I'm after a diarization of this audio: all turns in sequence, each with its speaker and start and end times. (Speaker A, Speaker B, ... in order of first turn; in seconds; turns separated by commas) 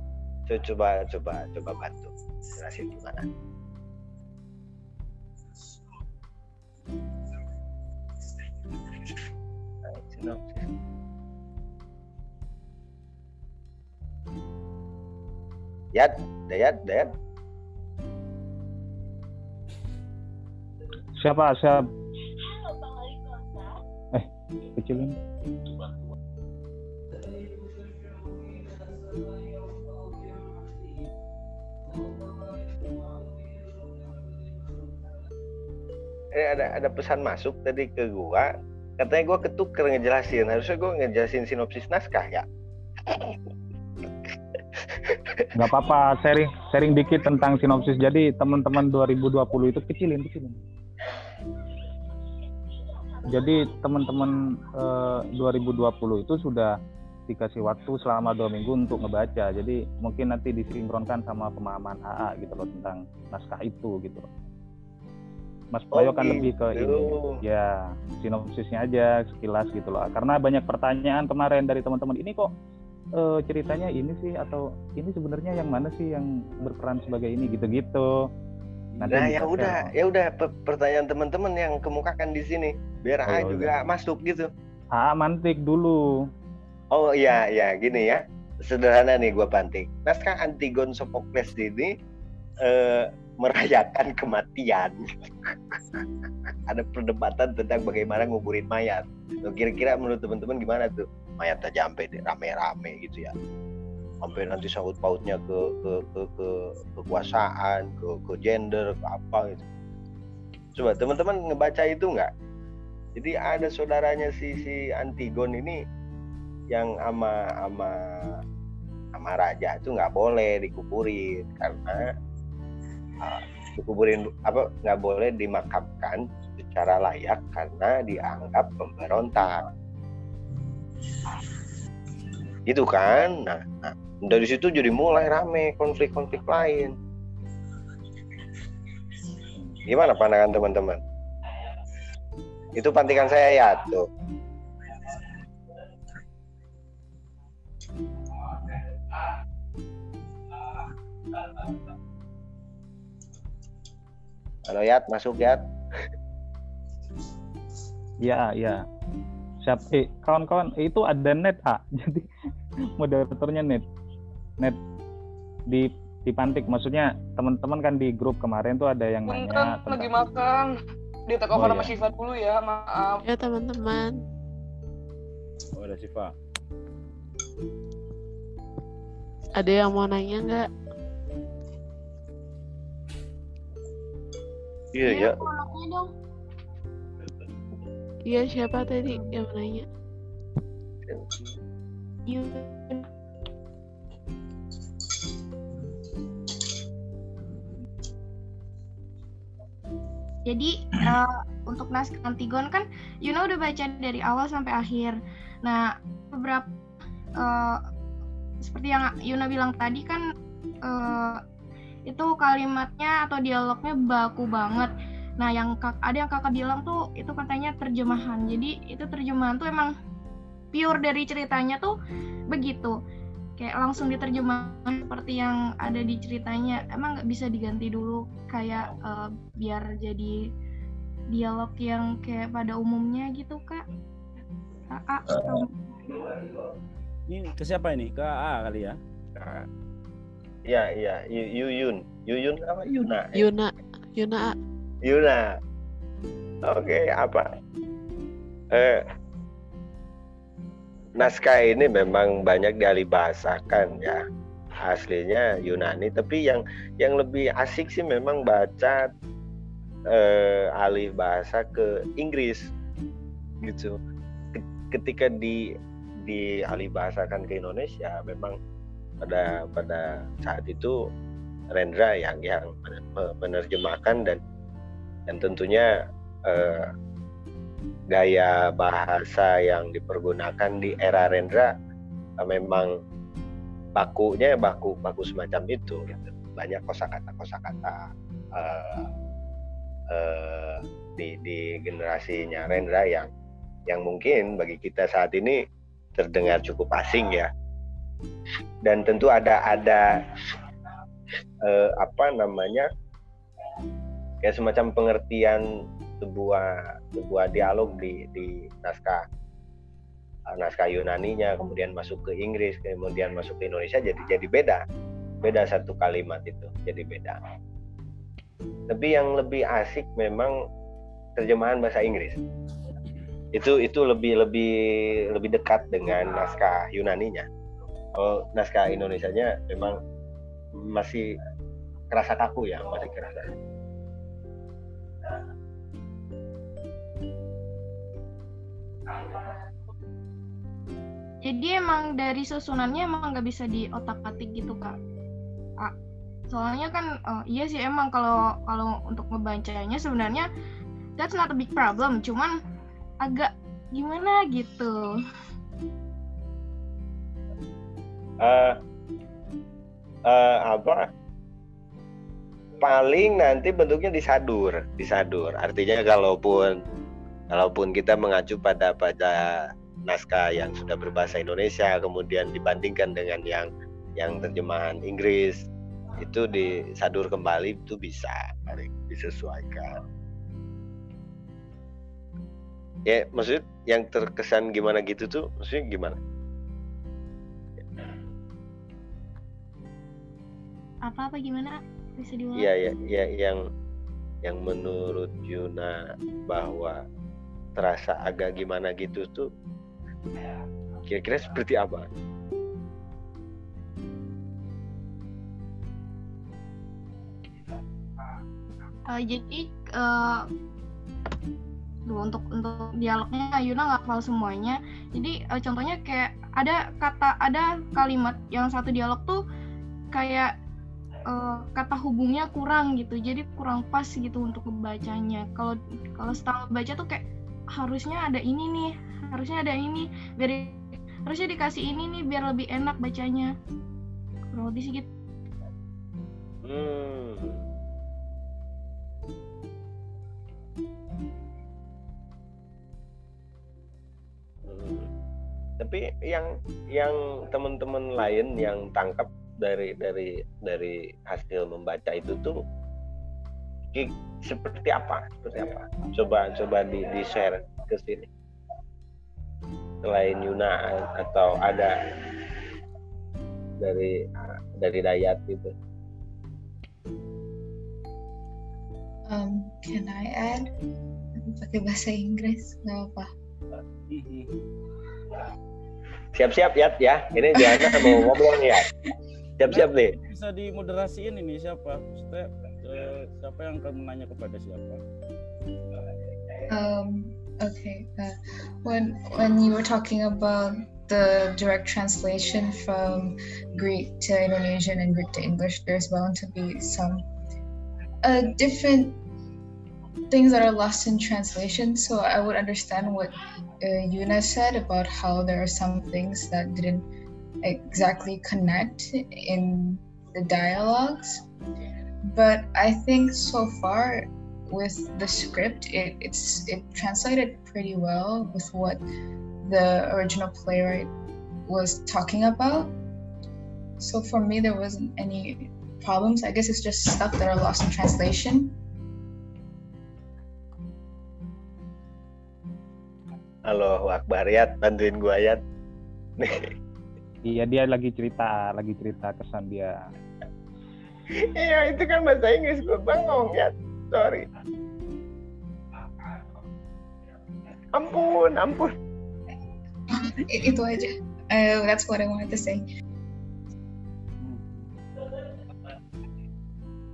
Speaker A: 0.5-3.3, Speaker A: 9.9-10.7, Speaker A: 15.9-17.1, Speaker B: 21.2-21.8, Speaker B: 24.1-25.1, Speaker A: 36.4-42.5, Speaker A: 43.1-43.4, Speaker A: 44.9-45.4, Speaker B: 45.6-50.6, Speaker B: 53.3-56.7, Speaker B: 57.3-64.3, Speaker B: 65.7-67.7, Speaker A: 65.9-67.4, Speaker B: 68.2-72.5, Speaker B: 73.2-78.0, Speaker B: 79.0-79.9, Speaker A: 79.1-84.5, Speaker B: 83.3-83.8, Speaker B: 84.9-86.0, Speaker A: 86.9-91.9, Speaker A: 92.6-96.0, Speaker A: 96.7-103.3, Speaker A: 104.2-109.6, Speaker A: 110.8-112.3, Speaker A: 113.2-115.8, Speaker A: 116.7-118.0, Speaker A: 119.2-122.1, Speaker A: 123.2-129.7, Speaker A: 132.7-136.9, Speaker A: 139.9-141.0, Speaker A: 142.8-144.1, Speaker A: 154.7-155.6, Speaker B: 158.2-158.8, Speaker B: 159.7-162.2, Speaker B: 163.0-163.8, Speaker B: 165.7-170.2, Speaker C: 169.3-170.7, Speaker C: 171.3-173.2, Speaker B: 171.6-171.9, Speaker D: 173.2-174.2, Speaker E: 175.8-176.3, Speaker D: 179.6-180.7, Speaker A: 184.9-185.4, Speaker F: 185.1-186.1, Speaker D: 188.2-189.8, Speaker F: 189.1-189.3, Speaker F: 192.3-193.1, Speaker F: 200.5-206.7, Speaker F: 207.4-207.8, Speaker F: 208.6-210.2, Speaker F: 210.8-211.4, Speaker F: 212.1-219.9, Speaker F: 220.7-221.9, Speaker F: 222.5-222.9, Speaker F: 223.6-230.5, Speaker F: 231.3-233.8, Speaker F: 234.9-236.0, Speaker E: 237.3-239.0, Speaker A: 239.4-239.7, Speaker A: 240.7-243.4, Speaker D: 243.3-244.6, Speaker A: 245.1-245.5, Speaker A: 246.7-247.5, Speaker A: 248.7-249.0, Speaker A: 251.2-254.2, Speaker A: 254.8-259.1, Speaker A: 260.1-262.7, Speaker A: 263.6-264.0, Speaker A: 264.6-265.6, Speaker A: 266.2-268.6, Speaker A: 269.2-271.0, Speaker A: 271.7-274.4, Speaker A: 275.3-275.9, Speaker A: 276.5-276.9, Speaker A: 278.1-281.7, Speaker A: 282.4-282.9, Speaker A: 284.0-288.0, Speaker A: 288.6-289.0, Speaker A: 290.1-293.3, Speaker A: 293.9-295.6, Speaker A: 296.2-297.5, Speaker A: 298.9-300.1, Speaker A: 301.6-302.9, Speaker A: 304.4-305.6, Speaker A: 306.2-309.2, Speaker A: 310.5-314.8, Speaker A: 315.4-317.4, Speaker A: 318.9-320.6, Speaker A: 321.4-322.4, Speaker A: 323.5-327.5, Speaker A: 328.1-330.0, Speaker A: 330.8-331.3, Speaker A: 332.1-333.5, Speaker F: 341.4-345.0, Speaker F: 346.5-350.5, Speaker F: 351.2-352.5, Speaker F: 353.2-355.1, Speaker A: 358.4-358.7, Speaker A: 360.3-361.1, Speaker A: 362.8-366.8, Speaker A: 367.5-375.6, Speaker A: 376.2-380.0, Speaker A: 383.1-386.2, Speaker F: 391.1-392.7, Speaker A: 392.6-393.6, Speaker A: 394.4-397.0, Speaker A: 397.8-399.5, Speaker A: 401.1-402.1, Speaker F: 409.1-410.5, Speaker F: 412.1-419.4, Speaker F: 420.1-420.5, Speaker F: 421.3-427.2, Speaker F: 427.8-433.5, Speaker F: 434.5-435.1, Speaker A: 436.6-437.6, Speaker A: 444.7-445.1, Speaker A: 445.8-452.6, Speaker A: 453.9-458.3, Speaker A: 460.0-461.9, Speaker A: 463.8-465.7, Speaker G: 469.3-470.7, Speaker G: 471.4-473.3, Speaker E: 474.1-474.5, Speaker A: 476.4-478.9, Speaker G: 477.7-478.2, Speaker A: 479.6-480.1, Speaker E: 479.7-485.0, Speaker G: 486.7-497.2, Speaker G: 498.2-499.1, Speaker G: 500.3-507.0, Speaker G: 507.6-511.4, Speaker G: 512.3-519.0, Speaker G: 519.6-521.1, Speaker G: 521.7-522.9, Speaker G: 524.0-528.7, Speaker A: 533.7-535.6, Speaker A: 536.4-536.7, Speaker B: 537.5-539.9, Speaker A: 541.4-544.5, Speaker A: 547.9-548.9, Speaker G: 550.3-552.9, Speaker E: 554.4-554.9